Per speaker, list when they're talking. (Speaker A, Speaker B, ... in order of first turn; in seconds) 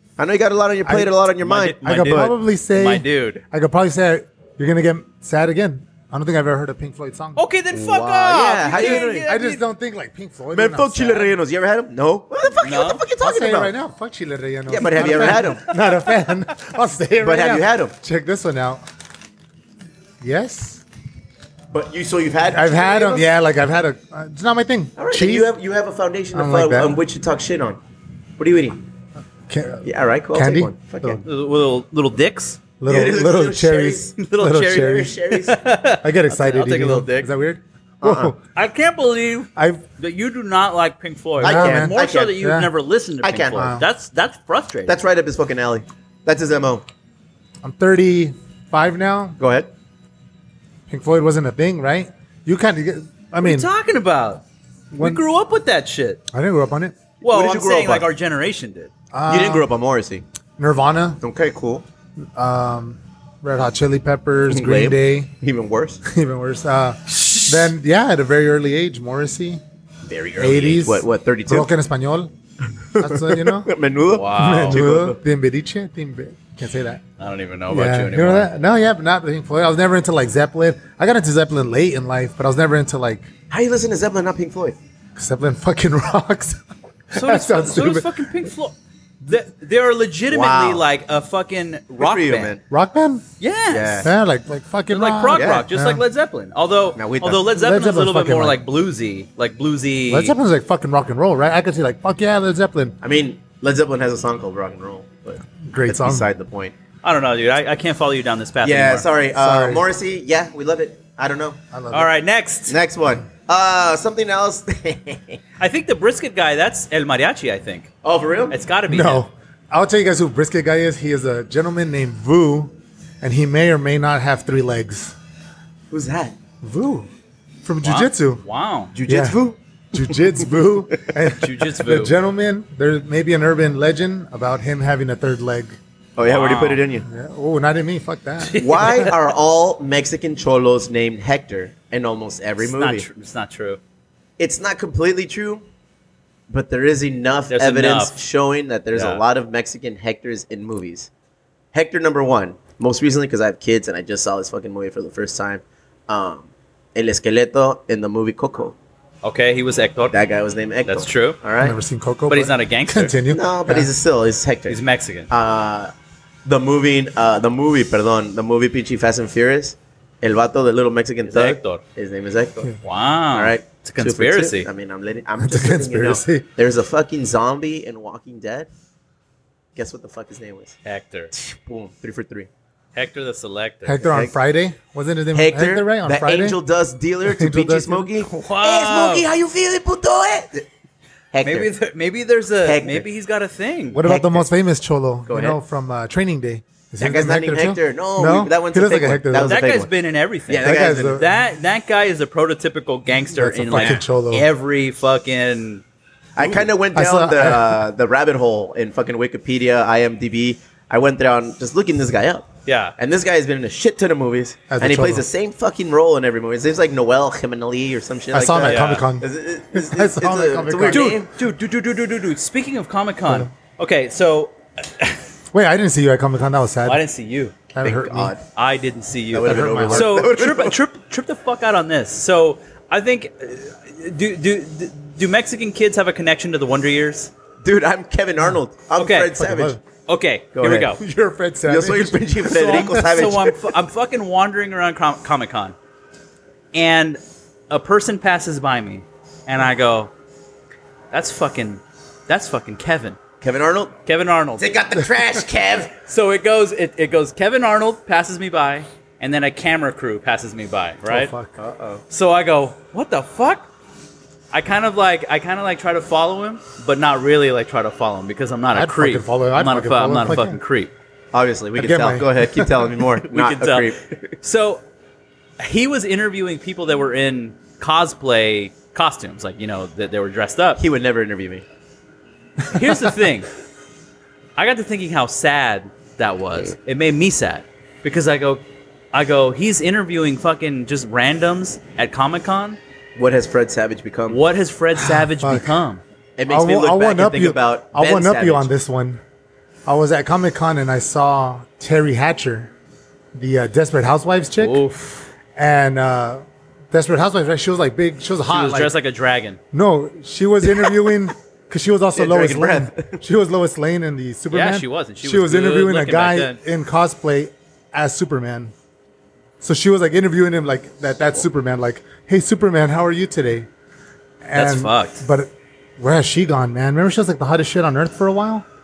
Speaker A: 0.2-2.3, 7.7-9.3, 10.5-13.7, 14.7-15.7, 17.2-17.9, 21.7-23.3, 25.0-27.8, 28.4-28.8, 29.8-31.2, 32.9-35.6, 36.6-37.1, 38.0-38.3, 41.4-42.4, 43.2-43.7, 44.9-46.8, 49.4-49.7, 57.2-58.1, 59.3-60.2, 61.2-61.8, 64.5-66.0, 70.0-71.7, 72.9-75.2, 83.5-84.8, 90.3-90.8, 92.0-92.6, 93.7-94.1, 95.3-95.7, 97.0-97.5, 103.0-106.7, 108.6-111.6, 112.7-115.4, 118.0-118.6, 125.9-126.3, 128.9-131.1, 136.2-137.0, 138.6-143.1, 144.4-145.6, 146.5-151.1, 151.7-158.8, 160.1-161.8, 163.3-164.8, 165.3-165.9, 166.4-172.7, 173.3-178.7, 179.8-180.8, 181.3-182.5, 185.3-190.7, 191.3-191.7, 192.6-193.0, 194.0-194.5, 195.3-195.6, 197.0-199.9, 200.5-201.2, 203.7-204.0, 206.3-221.3, 227.8-228.4, 229.3-230.8, 237.6-239.8, 240.5-240.9, 241.7-243.6, 253.4-253.9, 254.6-255.9, 261.6-262.0, 271.3-274.4, 280.8-281.6, 293.1-294.4, 296.4-298.7, 312.1-313.2
Speaker B: 0.8-1.2, 1.8-7.4, 8.7-11.4, 13.2-18.8, 20.2-20.8, 22.5-25.5, 26.3-27.0, 29.5-31.2, 32.8-35.1, 36.0-38.4, 39.5-39.8, 41.4-42.7, 43.5-43.9, 47.6-49.4, 50.9-53.7, 54.9-55.2, 56.3-57.0, 59.1-59.7, 60.6-61.2, 62.4-65.3, 66.0-69.6, 70.4-72.3, 73.0-73.7, 74.3-77.0, 77.7-83.3, 85.2-88.1, 92.7-93.2, 94.0-96.0, 97.5-98.6, 100.1-103.0, 105.6-106.3, 109.3-109.8, 111.7-112.1, 118.9-125.1, 126.6-127.1, 127.6-128.4, 129.1-129.4, 129.9-135.8, 137.0-138.6, 161.6-163.9, 175.4-176.5, 183.8-186.6, 187.2-188.2, 193.9-199.6, 200.6-201.3, 203.3-204.5, 206.9-207.8, 214.7-215.2, 218.3-221.2, 225.5-227.0, 227.7-228.3, 229.4-230.3, 239.4-239.8, 241.0-243.3, 261.1-261.6, 268.7-270.6, 271.8-272.9, 295.0-295.8, 296.5-299.2, 299.9-302.7, 303.3-304.8, 305.6-308.9, 309.7-318.7, 319.6-323.7, 324.4-328.6
Speaker C: 1.4-3.4, 7.3-9.6, 12.6-13.0, 31.2-32.6, 34.2-37.3, 38.5-45.0, 53.4-54.4, 55.0-56.2, 57.2-58.9, 74.1-74.8, 77.2-78.5, 87.1-92.5, 93.4-94.1, 94.9-100.3, 107.0-109.1, 111.9-112.8, 115.6-117.9, 118.5-119.2, 127.8-128.9, 131.3-132.1, 136.2-136.8, 138.4-139.3, 142.6-143.8, 147.5-148.2, 148.9-149.2, 159.2-160.2, 160.9-161.4, 162.3-163.2, 164.7-165.3, 171.2-171.8, 172.8-174.7, 180.8-181.3, 182.9-184.1, 188.3-189.2, 191.4-194.0, 199.4-205.8, 212.7-212.9, 218.6-219.1, 220.9-225.2, 226.9-227.5, 228.5-237.3, 238.9-239.3, 240.1-241.0, 242.5-245.7, 246.7-250.1, 251.1-253.2, 254.0-254.7, 256.1-261.3, 262.1-263.7, 264.5-270.9, 273.3-274.8, 275.6-280.8, 282.7-283.5, 284.6-288.6, 289.1-292.8, 294.3-296.0, 304.6-305.3, 308.5-309.6, 314.5-316.6, 324.5-325.2